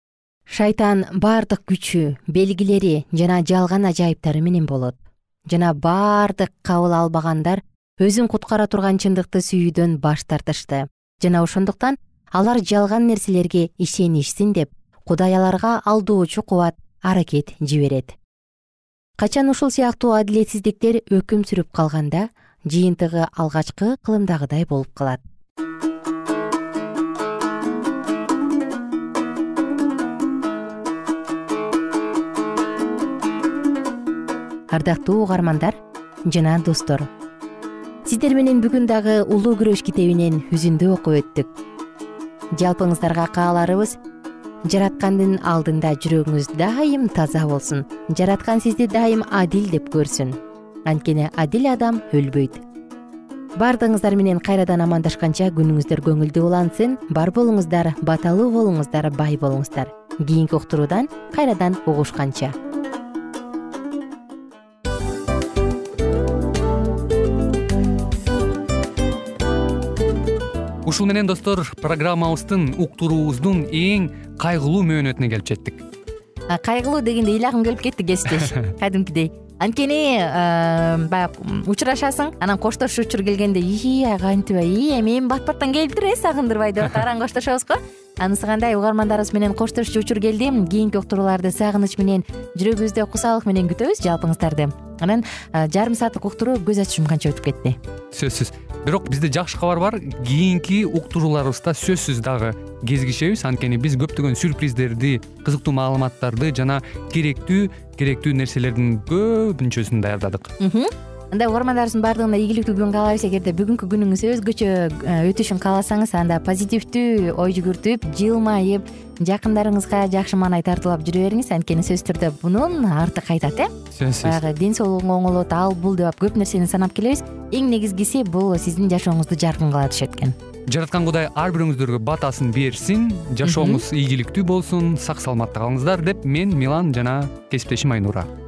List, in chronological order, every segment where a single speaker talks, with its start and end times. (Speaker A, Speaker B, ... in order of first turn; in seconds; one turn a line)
Speaker A: 0.5-5.0
Speaker A: 5.5-18.2
Speaker A: 19.2-25.2
Speaker A: 34.7-37.1
Speaker A: 38.0-41.5
Speaker A: 42.6-44.0
Speaker A: 44.7-52.6
Speaker A: 53.6-62.5
Speaker B: 70.8-75.8
Speaker A: 76.5-97.8
Speaker B: 98.1-110.5
Speaker A: 110.6-123.7
Speaker B: 124.0-124.4
Speaker A: 124.2-130.4
Speaker B: 130.7-138.3
Speaker A: 133.4-133.8